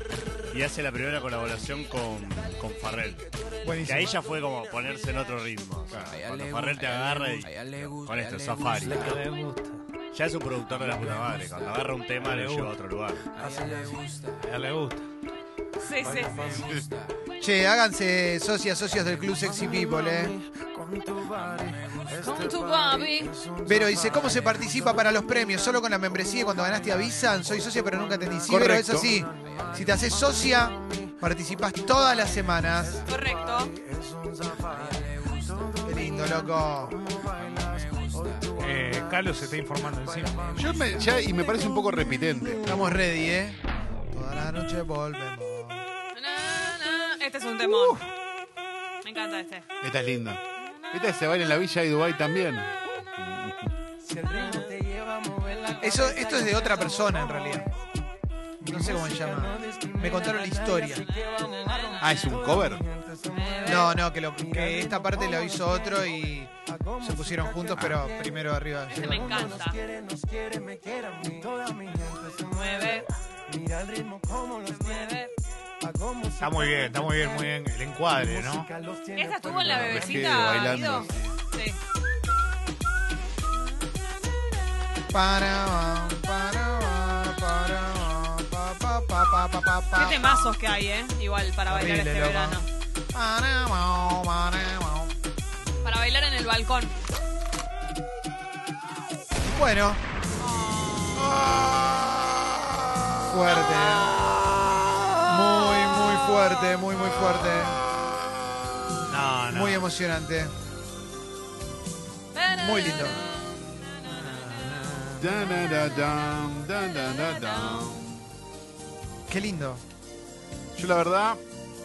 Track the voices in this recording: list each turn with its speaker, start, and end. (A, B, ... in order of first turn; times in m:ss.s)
0:00.5-0:03.2 A
0:03.6-0:04.1 B
0:03.8-0:09.2 A
0:05.9-0:06.2 C
0:09.0-0:09.8 D
0:10.1-0:13.2 A
0:12.2-0:12.7 D
0:13.4-0:13.7 D
0:14.3-0:15.0 D
0:15.8-0:16.5 E
0:16.5-0:16.8 C
0:17.4-0:20.4 B
0:22.1-0:23.4 E
0:23.6-0:33.1 B
0:28.5-0:29.1 C
0:33.1-0:33.7 E
0:35.8-0:37.0 B
0:38.6-0:40.8 D
0:40.6-0:42.9 C
0:42.7-0:43.6 B
0:44.1-0:45.8 B
0:46.1-0:48.0 E
0:49.0-0:49.6 E
0:49.8-0:50.4 C
0:50.9-0:53.6 C
0:55.4-0:55.8 E
0:55.8-0:57.7 B
0:58.6-1:01.0 B
1:01.1-1:02.3 E
1:02.0-1:02.9 C
1:03.3-1:04.0 E
1:03.7-1:09.5 B
1:07.7-1:08.0 C
1:08.9-1:09.8 E
1:12.5-1:13.1 E
1:14.7-1:15.3 E
1:16.4-1:18.7 D
1:19.1-1:21.8 E
1:19.5-1:21.4 C
1:25.1-1:30.6 B
1:29.9-1:32.7 E
1:31.7-1:35.2 B
1:35.8-1:37.0 E
1:39.5-1:40.0 B
1:40.4-1:41.4 E
1:43.3-1:44.2 B
1:45.2-1:47.8 B
1:49.1-1:49.9 D
1:49.5-1:50.5 B
1:52.3-1:54.7 E
1:52.6-1:53.2 B
1:54.1-1:55.7 D
1:55.2-1:58.1 C
1:57.0-1:58.0 E
1:59.3-1:59.8 B
2:00.8-2:01.4 C